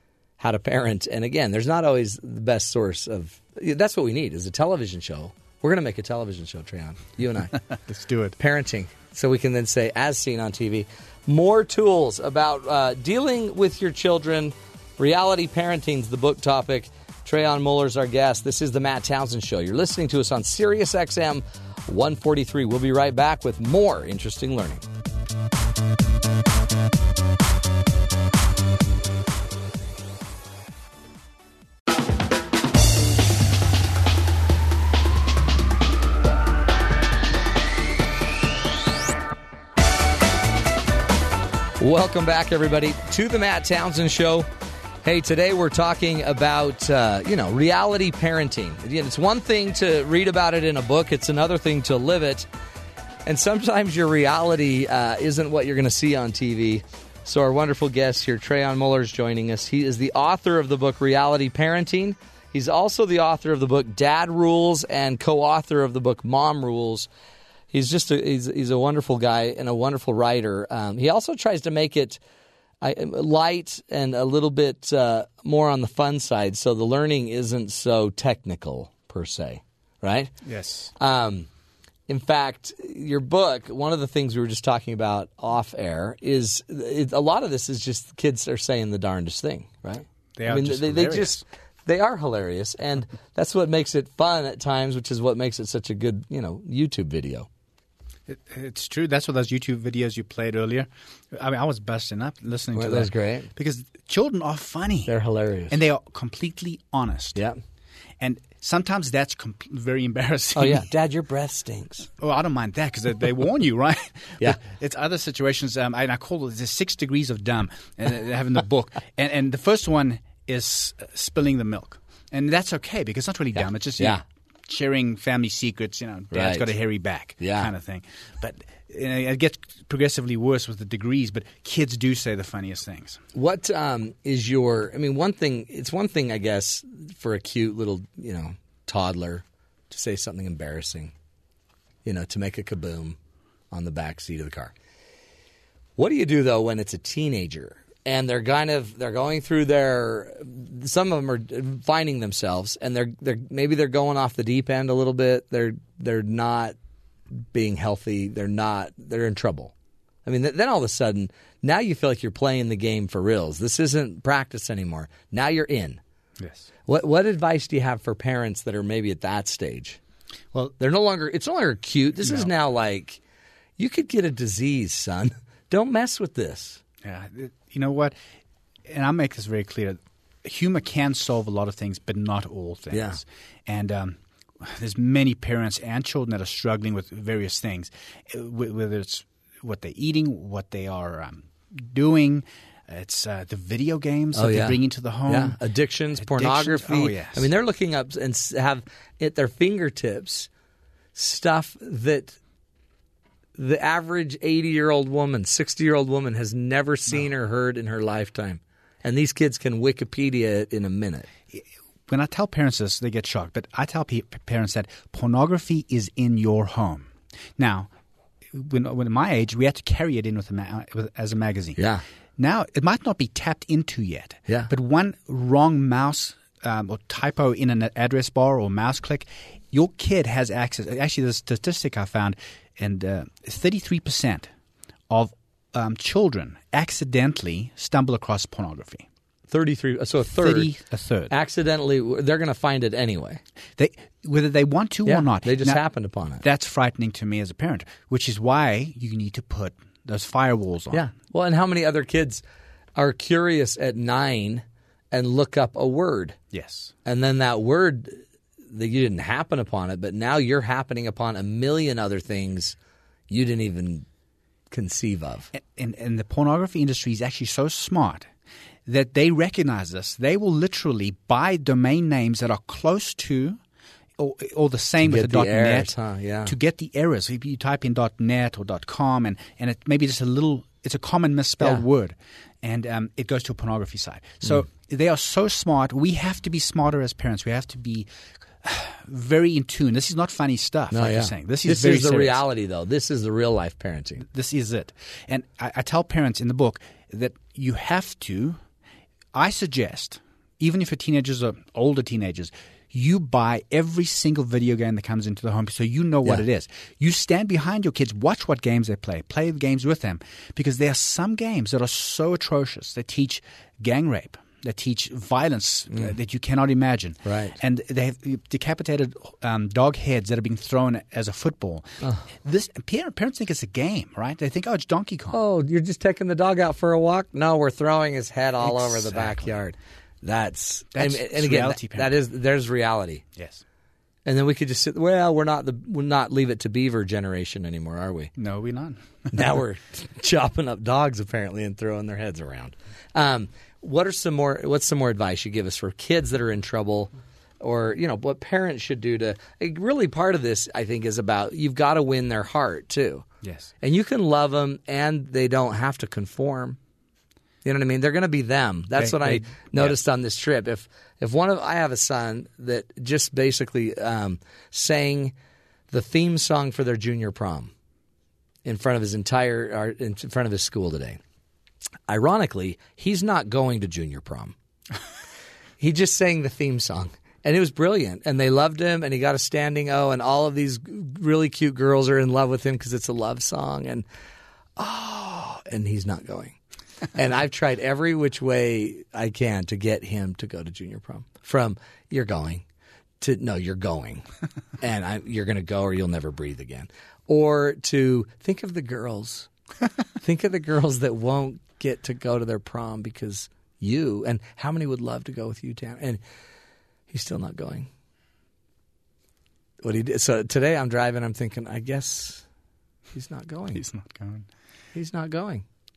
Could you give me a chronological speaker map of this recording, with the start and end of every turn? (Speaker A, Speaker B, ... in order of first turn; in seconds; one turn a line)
Speaker A: 0.4-7.6
Speaker B: 7.7-8.4
Speaker A: 8.4-24.8
Speaker A: 41.8-44.5
Speaker A: 45.0-52.5
Speaker A: 53.3-67.1
Speaker A: 67.7-72.2
Speaker A: 72.8-80.3
Speaker B: 80.4-80.9
Speaker A: 81.0-81.5
Speaker A: 82.1-97.5
Speaker B: 90.4-91.4
Speaker B: 98.3-105.1
Speaker A: 102.8-103.5
Speaker A: 105.1-105.8
Speaker B: 105.7-107.4
Speaker A: 107.3-107.6
Speaker B: 108.2-110.9
Speaker A: 110.5-112.1
Speaker B: 112.2-133.2
Speaker A: 123.5-124.2
Speaker A: 126.3-126.8
Speaker A: 127.4-127.7
Speaker A: 133.3-141.1
Speaker A: 142.1-143.2
Speaker A: 143.7-144.7
Speaker A: 146.0-156.8
Speaker A: 157.5-159.7
Speaker A: 160.2-166.0
Speaker B: 166.4-166.7
Speaker A: 166.9-170.0
Speaker A: 170.8-173.2
Speaker B: 172.2-172.5
Speaker A: 173.8-176.8
Speaker B: 177.0-178.2
Speaker B: 178.9-195.6
Speaker A: 182.9-183.2
Speaker A: 194.3-200.5
Speaker B: 196.1-197.5
Speaker A: 201.1-202.4
Speaker A: 203.6-211.3
Speaker B: 211.5-217.9
Speaker B: 218.5-221.9
Speaker A: 221.8-222.0
Speaker B: 222.4-234.5
Speaker B: 235.1-239.1
Speaker A: 239.5-240.7
Speaker B: 240.3-241.3
Speaker A: 241.3-243.4
Speaker B: 243.8-245.8
Speaker A: 245.1-246.4
Speaker B: 246.4-251.1
Speaker A: 250.9-252.4
Speaker A: 253.0-256.4
Speaker B: 256.5-256.9
Speaker A: 257.1-262.8
Speaker A: 263.3-264.1
Speaker A: 264.7-265.5
Speaker B: 265.5-268.3
Speaker B: 268.9-273.6
Speaker B: 274.2-275.9
Speaker A: 275.0-276.5
Speaker B: 276.4-288.1
Speaker B: 288.6-292.4
Speaker A: 290.9-294.2
Speaker B: 294.2-298.6
Speaker B: 299.3-325.4
Speaker A: 317.2-317.6
Speaker A: 325.3-333.2
Speaker B: 328.6-329.6
Speaker B: 330.9-332.1
Speaker B: 333.4-333.6
Speaker A: 334.2-338.3
Speaker B: 338.4-339.6
Speaker A: 339.3-353.3
Speaker B: 353.4-353.7
Speaker A: 353.8-356.8
Speaker A: 357.6-365.3
Speaker B: 359.0-360.0
Speaker A: 365.9-367.7
Speaker A: 368.6-371.2
Speaker A: 372.1-374.6
Speaker A: 375.8-384.1
Speaker A: 384.8-386.6
Speaker A: 387.1-392.6
Speaker A: 393.2-394.2
Speaker A: 394.8-399.5
Speaker A: 400.2-406.2
Speaker A: 407.1-407.9
Speaker A: 409.8-412.4
Speaker A: 413.1-413.8
Speaker B: 413.7-414.5
Speaker A: 414.9-415.6